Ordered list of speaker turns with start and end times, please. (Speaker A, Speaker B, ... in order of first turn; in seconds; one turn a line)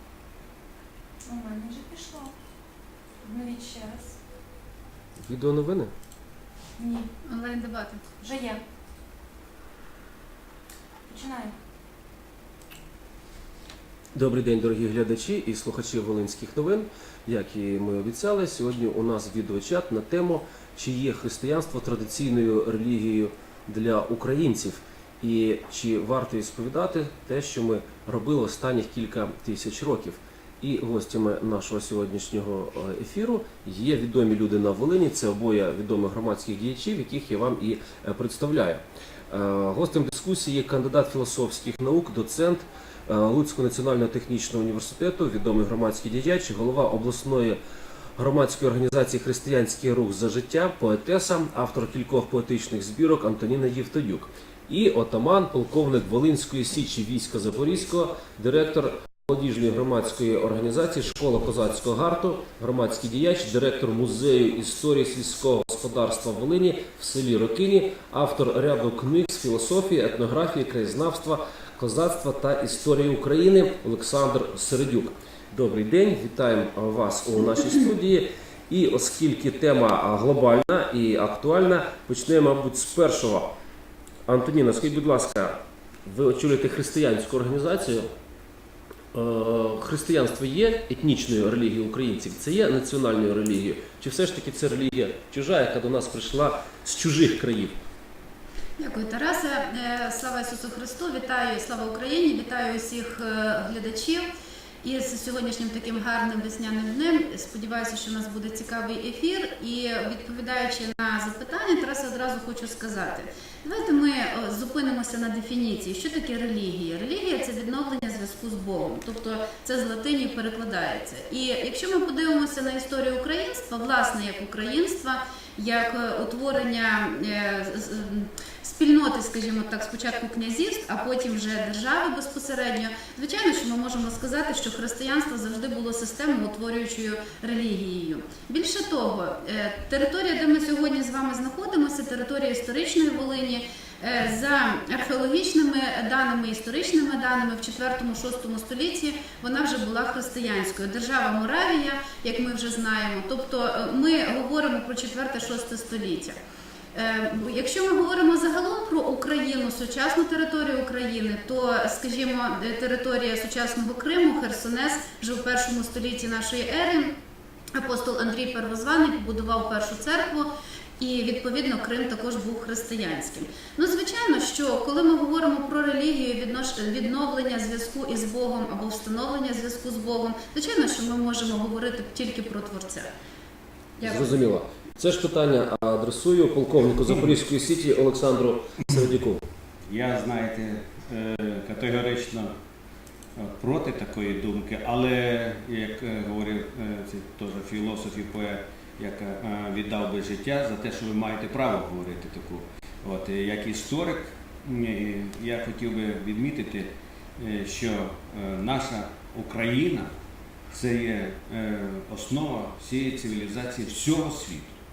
Speaker A: 1.2-2.3
Speaker A: 3.2-4.2
Speaker B: 5.2-5.9
Speaker A: 6.8-7.1
Speaker C: 7.2-8.1
Speaker A: 8.2-8.6
Speaker A: 11.1-11.5
Speaker B: 14.1-47.6
Speaker B: 48.2-83.5
Speaker B: 84.3-88.1
Speaker B: 89.1-97.8
Speaker C: 98.8-104.3
Speaker C: 104.8-156.4
Speaker C: 156.9-167.1
Speaker C: 167.7-183.1
Speaker C: 184.0-184.4
Speaker B: 184.0-189.4
Speaker D: 189.9-192.5
Speaker D: 193.3-210.1
Speaker D: 210.7-214.8